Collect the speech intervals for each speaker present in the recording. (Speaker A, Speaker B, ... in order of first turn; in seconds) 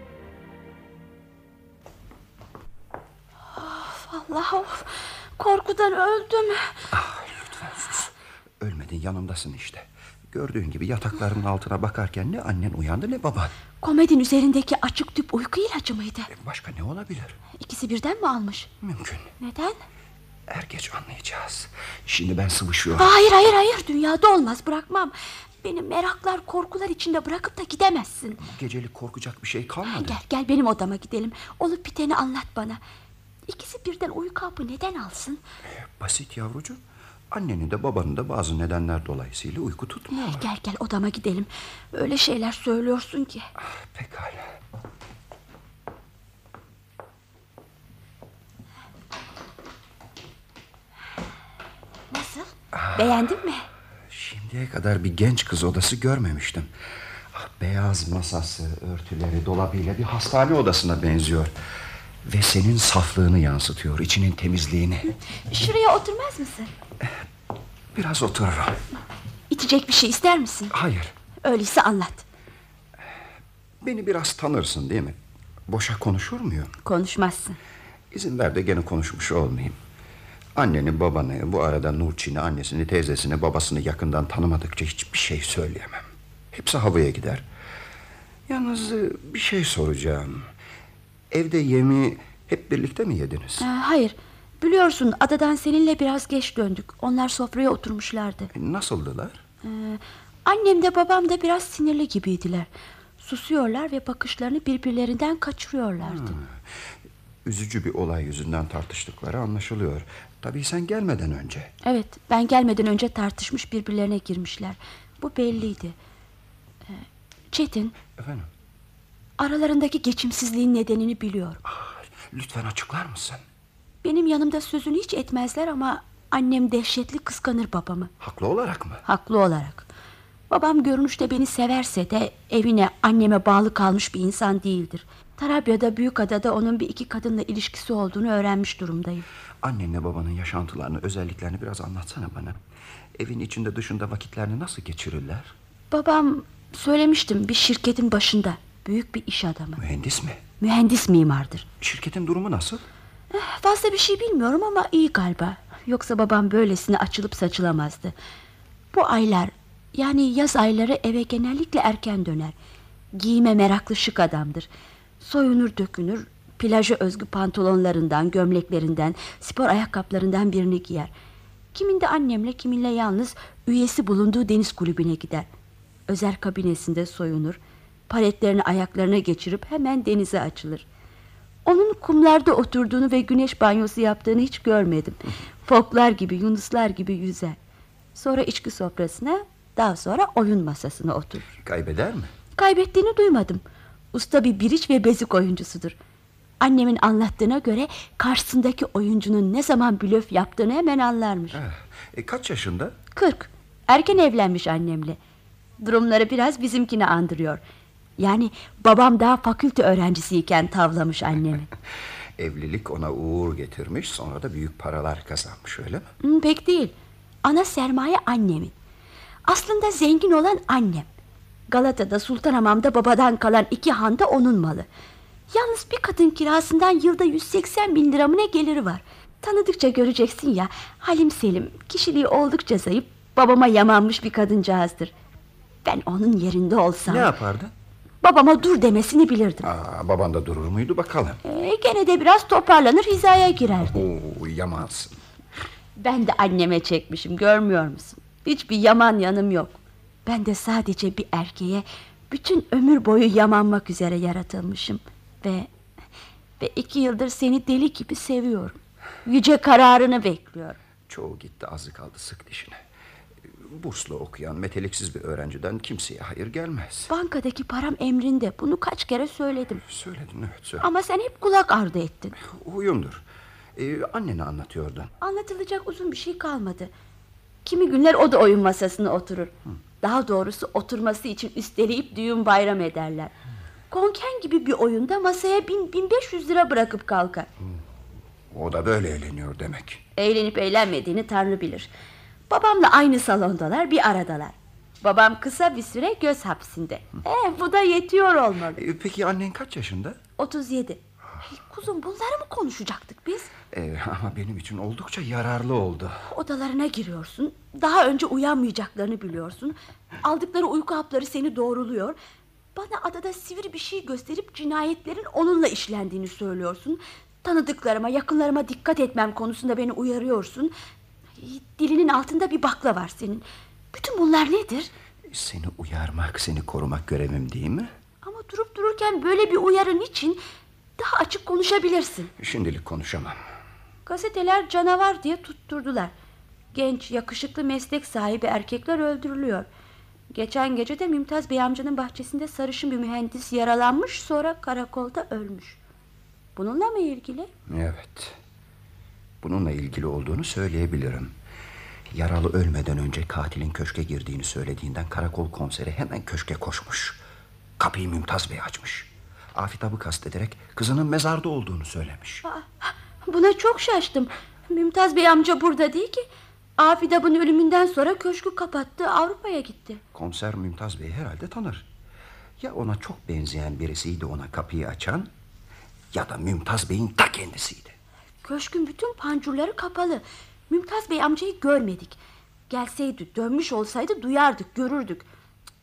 Speaker A: 3.5-6.7, 13.8-16.3, 17.6-18.7, 19.4-19.8, 22.9-28.4, 29.9-32.8, 33.5-35.4, 40.1-43.5, 52.1-53.7, 65.5-66.7, 69.5-70.7, 71.4-72.2, 76.8-77.6, 93.6-98.5, 99.6-102.7, 103.2-106.4, 111.8-116.0, 116.9-118.0, 119.4-121.6, 124.0-128.1, 129.1-129.9, 130.5-139.2, 145.9-149.8, 150.6-151.7, 153.3-158.1, 158.9-162.5, 163.2-164.7, 165.2-171.1, 171.7-175.5, 176.1-180.8, 181.7-187.6, 188.2-191.5, 192.6-193.6, 194.1-196.0, 196.6-201.6, 203.1-205.2, 205.8-207.6, 208.2-211.7, 216.2-216.9, 217.4-218.7, 219.5-221.1, 221.7-224.9, 225.5-235.1, 235.8-237.3, 238.2-239.7, 241.4-244.0, 246.0-255.7, 256.6-260.8, 267.1-269.8, 270.8-272.4, 275.2-276.9, 277.6-283.3, 283.9-287.5, 290.2-291.9, 292.5-298.8, 300.4-303.5, 306.3-312.2, 312.8-320.7, 321.4-324.9, 328.2-330.4, 331.0-332.3, 334.1-336.1, 336.7-339.7, 340.3-345.8, 346.6-347.5, 362.4-366.3, 366.8-370.0, 378.4-382.2, 382.7-385.3
Speaker B: 6.9-13.5, 16.3-17.4, 18.8-19.3, 20.5-23.1, 28.4-30.2, 35.7-40.5, 43.6-44.5, 52.7-53.4, 54.1-56.7, 57.3-61.5, 62.2-65.1, 67.9-68.8, 70.7-71.1, 73.8-75.2, 75.7-76.7, 78.1-79.8, 80.6-87.5, 88.5-90.5, 91.3-93.7, 98.5-99.4, 106.0-106.8, 107.5-111.7, 118.2-118.5, 121.7-123.4, 128.2-129.1, 139.6-142.6, 143.2-145.5, 149.8-150.4, 151.8-152.8, 191.6-192.3, 201.5-203.0, 212.4-216.1, 237.1-237.7, 239.6-241.4, 243.9-245.2, 261.1-262.8, 263.4-267.1, 269.8-270.9, 272.4-273.2, 273.8-275.1, 288.5-290.0, 298.7-300.2, 303.7-306.2, 325.3-327.9, 332.4-333.4, 347.7-348.4, 349.4-351.4, 352.1-357.2, 357.8-362.4, 370.1-371.9, 372.6-375.3, 376.1-378.0